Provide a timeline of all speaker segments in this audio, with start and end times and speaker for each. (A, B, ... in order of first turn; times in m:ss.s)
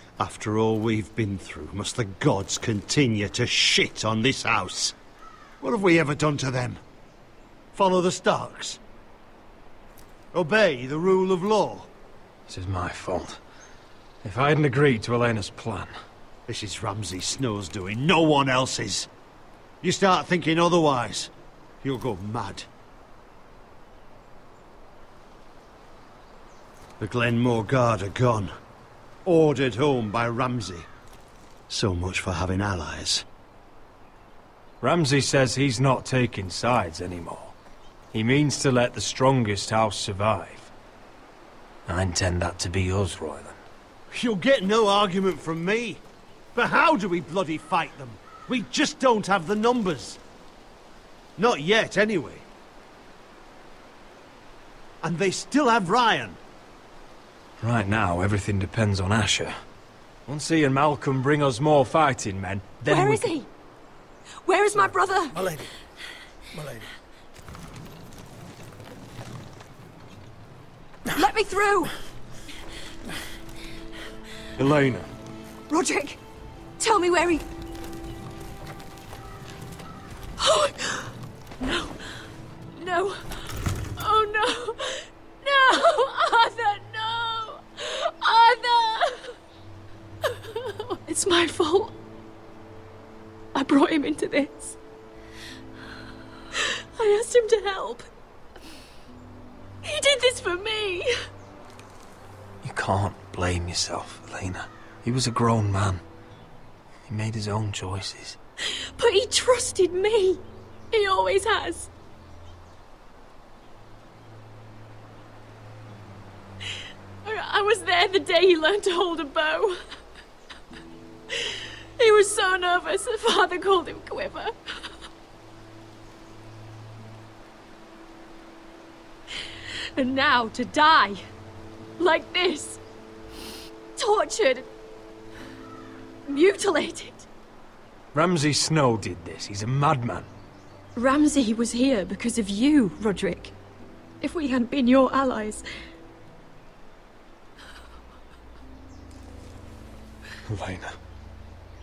0:00.2-0:05.0 A
0:05.6-0:06.8 A
0:07.8-0:08.8 A
0:10.3-0:11.9 A
0:12.5-0:13.4 B
0:14.2-0:15.9 B
0:16.5-0:19.1 A
0:19.8-0:21.3 A
0:21.8-0:22.7 A
0:27.0-0:28.5 A
0:29.2-0:30.9 A
0:31.7-0:33.2 A
0:34.8-0:37.6 B
0:38.1-0:40.7 B
0:41.9-0:43.6 B
0:44.1-0:46.0 A
0:46.6-0:50.2 A
0:51.4-0:52.5 A
0:55.0-0:56.4 A
0:57.6-0:59.5 B
1:00.3-1:03.3 B
1:02.9-1:03.5 C
1:04.4-1:05.5 C
1:11.1-1:11.9 C
1:14.6-1:15.1 B
1:15.7-1:16.2 C
1:16.8-1:17.5 C
1:20.4-1:22.0 C
1:22.8-1:29.4 C
1:30.5-1:32.0 C
1:33.6-1:34.8 C
1:36.5-1:38.1 C
1:39.8-1:41.1 C
1:42.6-1:46.0 B
1:47.1-1:48.4 B
1:48.7-1:51.9 C
1:57.2-1:59.8 C
2:01.3-2:04.9 C
2:10.0-2:11.2 C
2:12.0-2:12.8 C
2:14.0-2:14.7 C
2:16.3-2:17.3 C
2:18.1-2:20.3 B
2:21.0-2:23.6 C
2:24.2-2:25.6 C
2:30.5-2:31.0 B